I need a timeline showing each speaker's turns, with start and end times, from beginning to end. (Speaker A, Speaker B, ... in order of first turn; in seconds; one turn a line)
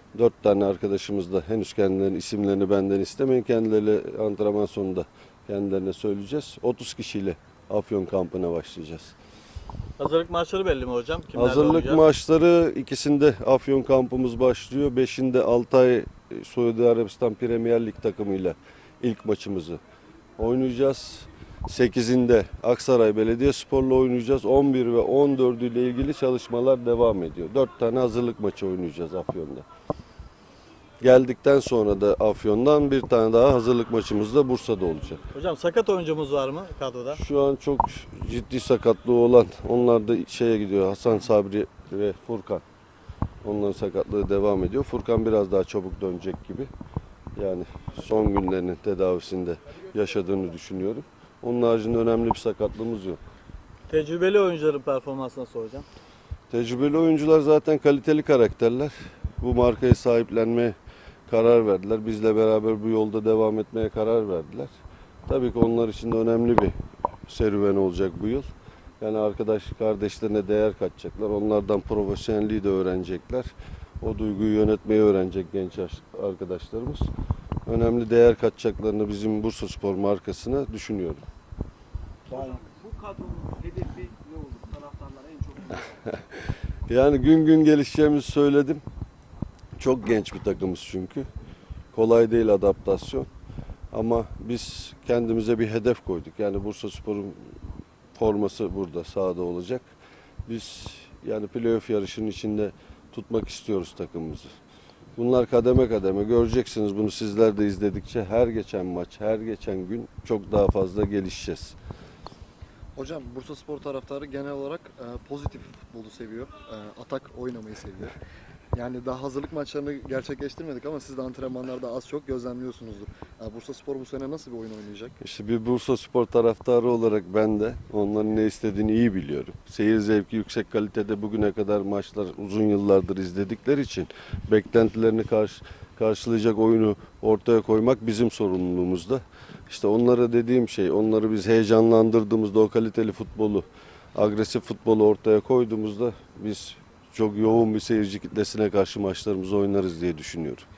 Speaker A: 0.1-9.2
Speaker B: 10.0-12.1
Speaker A: 11.3-19.8
Speaker A: 20.4-29.6
Speaker A: 31.0-35.2
Speaker B: 35.3-37.2
Speaker A: 37.1-42.6
Speaker A: 43.4-46.7
Speaker A: 47.4-53.2
Speaker B: 53.9-55.9
Speaker A: 56.5-60.8
Speaker A: 61.3-64.7
Speaker A: 65.3-66.7
Speaker A: 67.3-68.5
Speaker A: 69.0-77.1
Speaker A: 77.7-81.2
Speaker C: 82.3-86.2
Speaker A: 86.9-88.8
Speaker A: 89.8-91.3
Speaker A: 91.9-93.3
Speaker A: 93.9-97.5
Speaker A: 98.2-99.9
Speaker A: 100.5-104.5
Speaker A: 105.2-111.8
Speaker D: 113.0-118.2
Speaker D: 118.7-125.2
Speaker A: 125.2-150.7